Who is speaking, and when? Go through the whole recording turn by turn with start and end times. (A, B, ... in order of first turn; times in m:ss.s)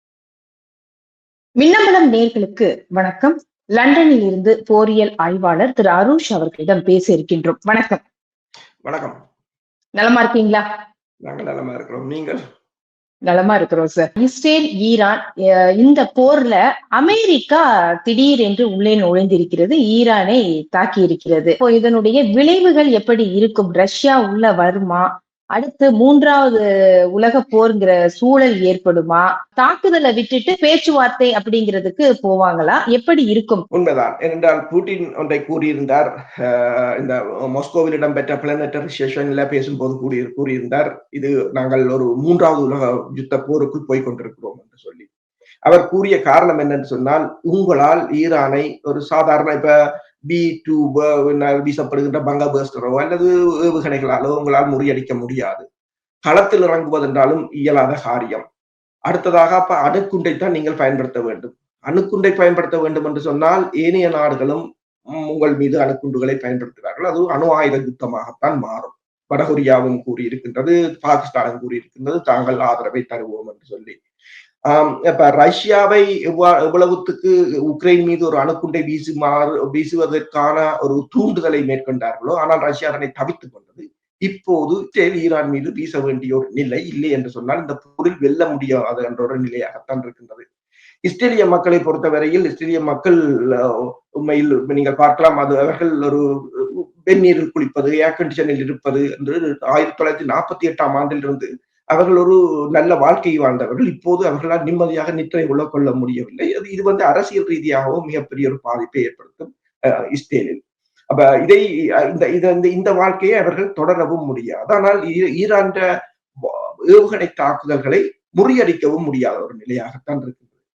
0:01.6-0:08.0 A
0:08.8-0:09.2 B
0:10.0-0:10.6 A
0:11.2-0:12.4 B
0:13.2-0:15.2 A
0:15.8-0:26.6 A
0:27.2-0:33.6 A
0:33.7-0:45.1 B
0:45.6-0:49.7 B
0:50.3-0:55.6 B
0:56.2-0:58.4 B
0:59.1-1:04.6 B
1:05.1-1:14.0 B
1:14.7-1:30.4 B
1:31.0-1:55.8 B
1:56.4-2:00.4 B